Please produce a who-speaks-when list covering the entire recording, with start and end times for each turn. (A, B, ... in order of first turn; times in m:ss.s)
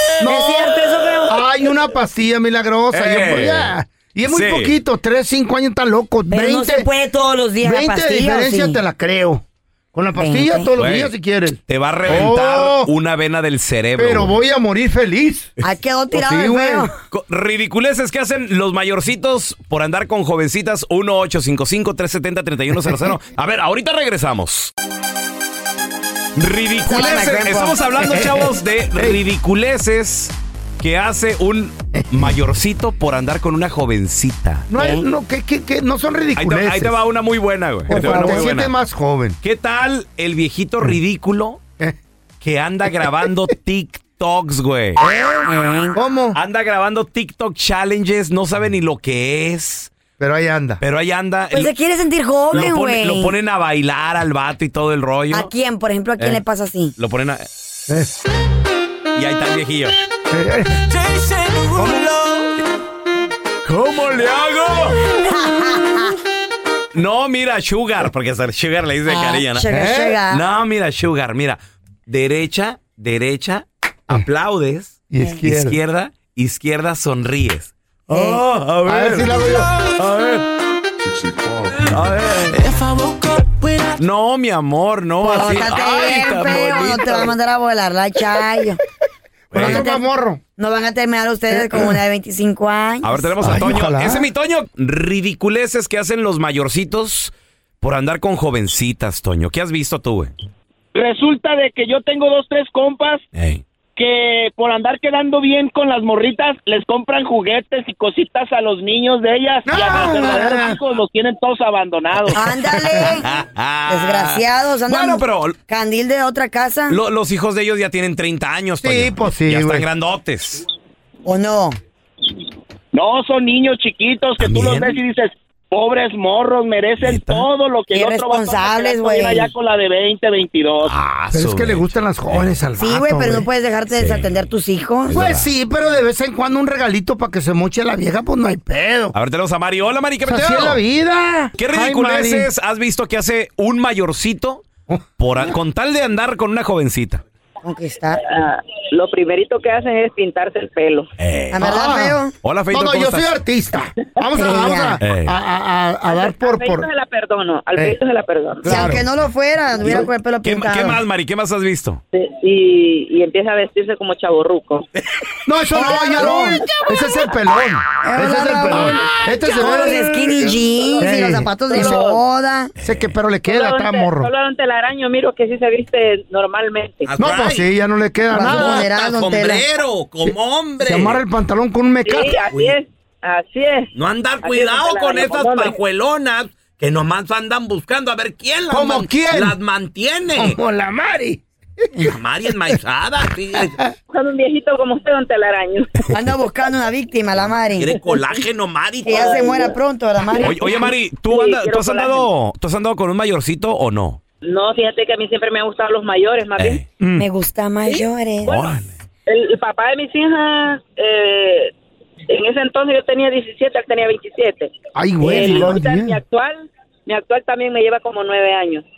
0:00.2-0:06.9 A
0:00.2-0:01.4 B
0:02.9-0:04.7 C
0:06.3-0:08.8 B
0:07.6-0:12.9 A
0:10.2-0:10.7 B
0:10.8-0:11.1 C
0:11.7-0:14.3 C
0:14.0-0:15.5 A
0:15.6-0:16.9 B
0:16.1-0:16.9 A
0:17.1-0:24.7 C
0:26.4-0:34.7 C
0:26.8-0:27.8 B
0:28.1-0:28.4 A
0:34.7-0:36.9 A
0:34.7-0:35.1 B
0:36.3-0:38.7 C
0:37.9-0:39.4 A
0:37.9-0:38.4 B
0:39.4-0:41.6 C
0:42.4-0:45.0 C
0:45.0-0:46.4 A
0:45.4-0:46.0 B
0:46.3-0:49.9 C
0:50.2-0:50.8 A
0:50.8-0:51.7 C
0:51.5-0:53.3 B
0:52.5-0:55.5 C
0:55.3-0:56.9 B
0:56.2-0:56.4 C
0:57.0-0:57.4 C
0:59.1-0:59.9 C
1:00.3-1:00.8 A
1:00.9-1:02.4 C
1:01.8-1:02.0 A
1:03.6-1:05.0 C
1:05.1-1:06.1 B
1:06.9-1:09.7 C
1:09.0-1:10.4 B
1:09.7-1:10.2 A
1:10.3-1:20.4 C
1:15.1-1:15.8 A
1:18.1-1:18.4 B
1:18.8-1:19.7 A
1:21.7-1:23.0 C
1:22.3-1:22.6 B
1:23.6-1:27.4 C
1:25.2-1:28.8 B
1:29.5-1:29.8 C
1:29.5-1:30.4 A
1:29.6-1:30.0 B
1:30.6-1:33.3 B
1:31.5-1:32.0 A
1:33.0-1:40.3 C
1:33.4-1:34.2 A
1:40.9-1:43.2 D
1:43.3-1:43.6 C
1:44.0-1:52.4 D
1:49.7-1:50.8 A
1:52.3-1:53.3 B
1:53.0-1:55.5 C
1:53.9-1:57.0 B
1:56.9-2:00.6 C
1:58.8-1:59.8 A
2:01.2-2:01.8 B
2:02.9-2:10.9 D
2:04.4-2:05.0 C
2:07.0-2:07.5 C
2:07.9-2:09.5 B
2:10.8-2:12.6 C
2:11.3-2:13.5 A
2:12.8-2:15.2 B
2:13.9-2:14.4 C
2:15.1-2:15.5 C
2:15.1-2:19.1 A
2:19.1-2:20.8 C
2:20.2-2:22.5 A
2:21.6-2:24.6 C
2:25.2-2:27.2 C
2:27.6-2:28.2 B
2:28.2-2:31.1 E
2:31.2-2:31.7 C
2:31.5-2:32.3 B
2:31.6-2:32.2 A
2:32.4-2:33.3 C
2:32.7-2:36.9 A
2:34.3-2:35.0 B
2:35.0-2:35.3 C
2:36.0-2:38.8 E
2:38.6-2:39.1 A
2:38.6-2:41.0 B
2:39.8-2:40.1 A
2:40.4-2:42.0 C
2:42.1-2:44.8 E
2:45.4-2:52.1 A
2:45.7-2:46.8 B
2:48.0-2:52.7 B
2:51.7-2:52.1 E
2:52.8-2:53.1 C
2:52.8-2:54.3 A
2:53.4-2:57.1 E
2:57.0-2:57.7 C
2:57.2-2:58.9 A
2:58.3-2:59.6 B
2:58.3-3:01.2 C
3:00.8-3:02.4 A
3:02.0-3:03.9 E
3:03.9-3:10.6 C
3:04.4-3:05.8 E
3:08.7-3:09.6 A
3:10.3-3:11.4 A
3:12.0-3:13.8 C
3:14.1-3:16.0 E
3:16.1-3:18.0 B
3:17.8-3:19.5 C
3:19.0-3:20.9 B
3:19.2-3:19.7 E
3:20.4-3:24.2 C
3:21.3-3:22.3 E
3:24.4-3:26.8 E
3:26.6-3:26.8 C
3:27.0-3:27.2 A
3:27.2-3:28.6 B
3:28.4-3:28.9 C
3:29.2-3:31.7 E
3:32.3-3:38.8 E
3:34.9-3:36.2 A